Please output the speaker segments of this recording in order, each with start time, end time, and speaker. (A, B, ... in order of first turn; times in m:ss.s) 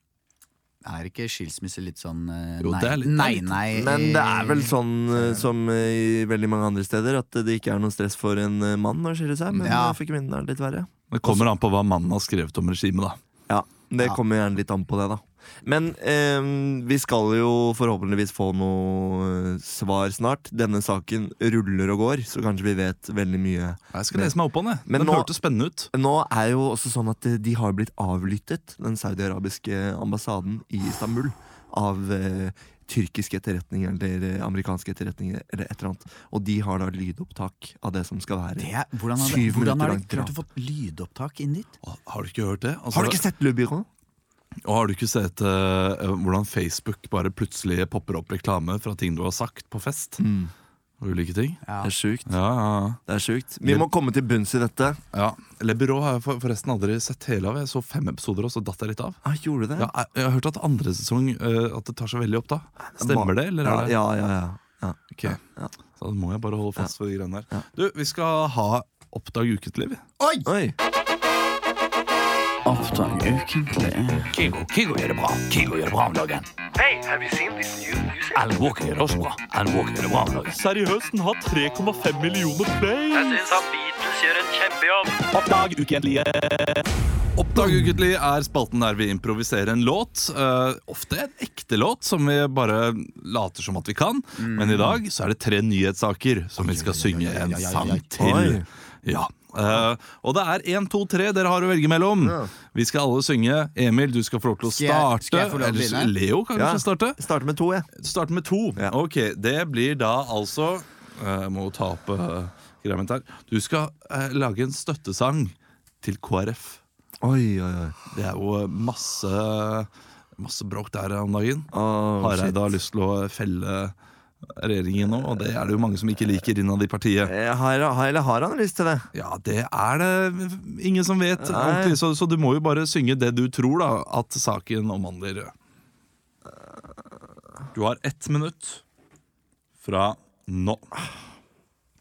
0:00.8-0:04.7 A
0:02.6-0:03.6 B
0:03.7-0:11.5 C
0:09.6-0:10.0 A
0:11.1-0:13.2 B
0:13.5-0:24.3 C
0:23.9-0:25.9 B
0:24.9-0:25.3 C
0:25.9-0:40.3 C
0:38.6-0:41.7 A
0:41.8-0:43.2 B
0:42.9-0:43.9 C
0:44.6-0:50.2 B
0:50.2-0:50.5 C
0:51.0-0:51.6 B
0:51.6-0:51.9 A
0:51.8-0:52.3 C
0:52.3-0:53.0 B
0:53.1-0:55.0 C
0:55.1-0:59.2 B
0:59.2-0:59.9 C
0:59.8-1:04.0 B
1:03.0-1:05.7 C
1:06.0-1:10.0 B
1:10.2-1:10.5 A
1:10.4-1:10.8 C
1:12.6-1:14.4 A
1:14.4-1:16.4 B
1:16.8-1:18.4 D
1:18.3-1:23.6 B
1:23.1-1:25.3 D
1:25.3-1:26.8 B
1:27.4-1:47.2 B
1:34.4-1:35.0 A
1:36.6-1:38.4 A
1:38.2-1:38.7 C
1:42.2-1:42.5 C
1:44.7-1:46.1 A
1:46.6-1:47.9 C
1:48.0-1:56.8 B
1:57.2-1:58.0 C
1:58.1-2:04.0 B
2:01.7-2:02.6 C
2:04.6-2:07.3 B
2:07.3-2:09.1 C
2:09.1-2:15.5 B
2:11.4-2:12.0 C
2:17.7-2:18.8 B
2:19.8-2:20.8 B